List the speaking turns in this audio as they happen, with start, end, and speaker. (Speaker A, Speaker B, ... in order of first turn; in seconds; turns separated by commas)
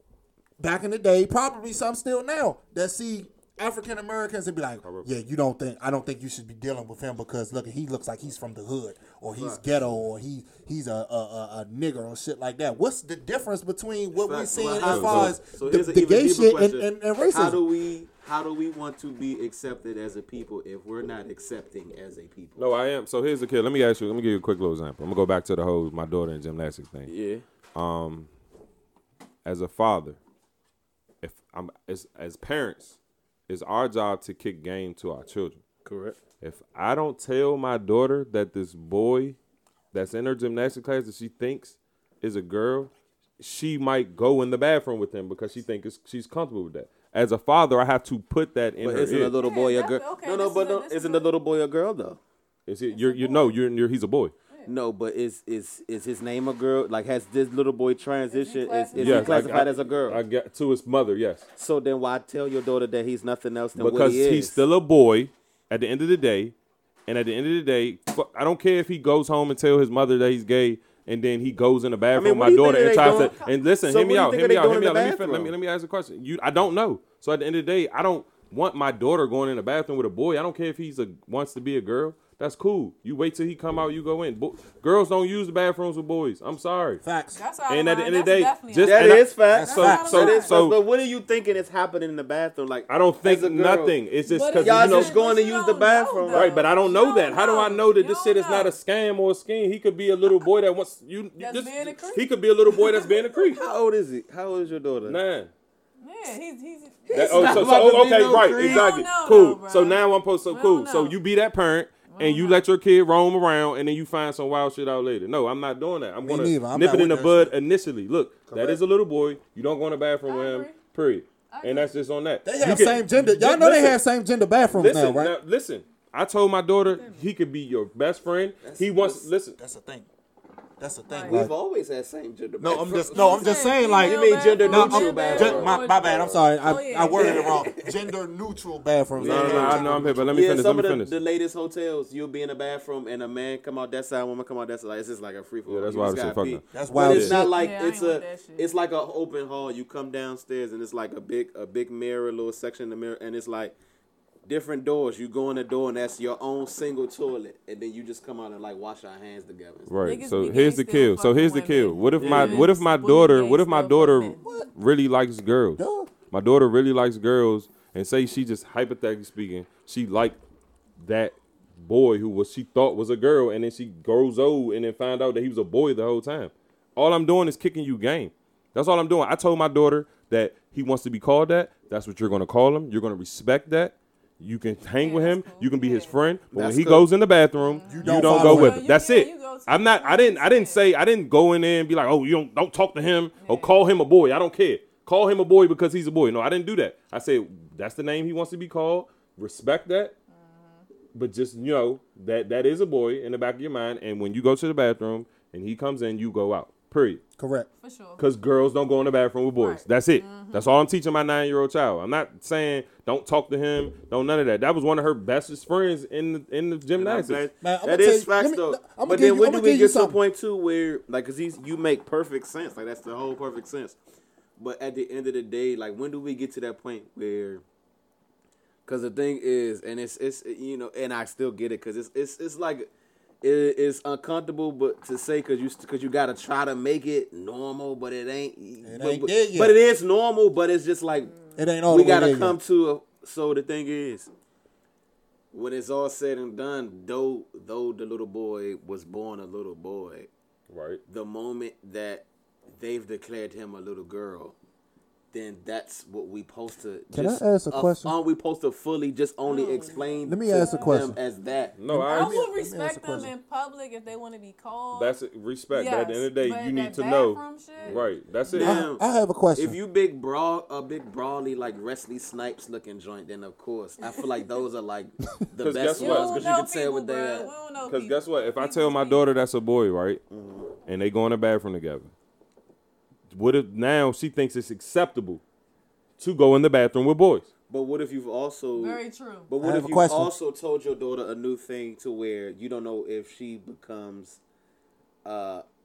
Speaker A: 0.6-17.6, Speaker B: 4.8-5.1, Speaker C: 9.3-9.6, Speaker C: 14.2-22.7, Speaker B: 14.8-15.3, Speaker B: 22.6-27.1, Speaker C: 27.1-27.4, Speaker B: 27.7-28.3, Speaker B: 29.4-30.2, Speaker B: 31.2-33.0, Speaker B: 33.5-35.6, Speaker C: 35.9-36.2, Speaker B: 36.4-39.4, Speaker B: 39.9-49.4, Speaker C: 48.8-52.2, Speaker D: 49.3-51.3, Speaker B: 52.7-54.3, Speaker D: 52.9-53.6, Speaker C: 54.7-60.2, Speaker D: 58.3-59.7, Speaker B: 59.0-61.5, Speaker C: 61.5-64.6, Speaker B: 63.8-66.5, Speaker B: 67.1-87.0, Speaker C: 72.2-75.5, Speaker D: 72.9-73.5, Speaker A: 87.0-87.4, Speaker D: 87.3-90.5, Speaker B: 87.7-90.8, Speaker C: 88.8-94.0, Speaker A: 89.5-90.1, Speaker B: 92.9-95.2, Speaker D: 94.2-98.7, Speaker C: 94.6-96.5, Speaker B: 96.3-103.6, Speaker D: 101.4-103.3, Speaker C: 103.5-105.2, Speaker B: 105.0-105.5, Speaker D: 106.0-107.8, Speaker C: 107.1-108.9, Speaker B: 107.1-124.0, Speaker D: 108.5-111.2, Speaker D: 112.1-112.6, Speaker A: 116.2-117.5, Speaker A: 118.5-118.8, Speaker D: 120.3-120.8, Speaker D: 121.5-122.0, Speaker A: 122.5-125.4, Speaker B: 124.7-129.6, Speaker D: 126.9-127.2, Speaker C: 128.6-129.3, Speaker A: 129.6-130.1, Speaker A: 130.8-131.5, Speaker D: 131.1-131.4, Speaker C: 131.3-136.4, Speaker A: 132.6-140.5, Speaker D: 133.1-137.7, Speaker C: 137.1-137.9, Speaker C: 139.2-153.7, Speaker B: 139.2-141.1, Speaker B: 145.7-147.4, Speaker A: 146.7-147.5, Speaker D: 147.3-148.7, Speaker C: 154.4-159.9, Speaker B: 159.9-170.4, Speaker D: 160.0-164.5, Speaker C: 162.2-162.7, Speaker A: 164.4-164.7, Speaker A: 165.8-166.1, Speaker B: 171.0-200.1, Speaker D: 185.0-186.2, Speaker C: 186.5-187.1, Speaker D: 187.6-190.8, Speaker A: 187.9-188.8, Speaker D: 193.4-193.7, Speaker D: 200.3-200.9, Speaker B: 201.1-207.2, Speaker A: 207.4-207.7, Speaker D: 207.8-208.2, Speaker B: 208.2-217.5, Speaker D: 209.6-210.7, Speaker C: 216.9-224.0, Speaker A: 217.6-220.2, Speaker C: 224.6-227.6, Speaker C: 228.9-232.9, Speaker C: 233.4-241.3, Speaker A: 238.8-239.8, Speaker A: 241.6-242.6, Speaker C: 241.8-244.3, Speaker C: 245.5-250.3, Speaker B: 250.7-251.0, Speaker C: 251.1-254.6, Speaker C: 255.3-261.7, Speaker A: 257.1-258.1, Speaker D: 259.4-261.1, Speaker A: 260.3-261.2, Speaker B: 261.8-262.4, Speaker A: 261.9-263.3, Speaker D: 261.9-265.2, Speaker B: 264.9-268.8, Speaker D: 265.7-268.0, Speaker C: 267.8-277.5, Speaker A: 268.6-269.8, Speaker B: 275.6-276.5, Speaker D: 275.9-279.2, Speaker B: 277.9-280.2, Speaker C: 280.3-280.7, Speaker B: 280.9-282.1, Speaker B: 283.3-285.4, Speaker B: 286.2-287.5, Speaker C: 287.7-294.4, Speaker D: 288.7-289.5, Speaker A: 289.6-290.3, Speaker C: 295.2-295.6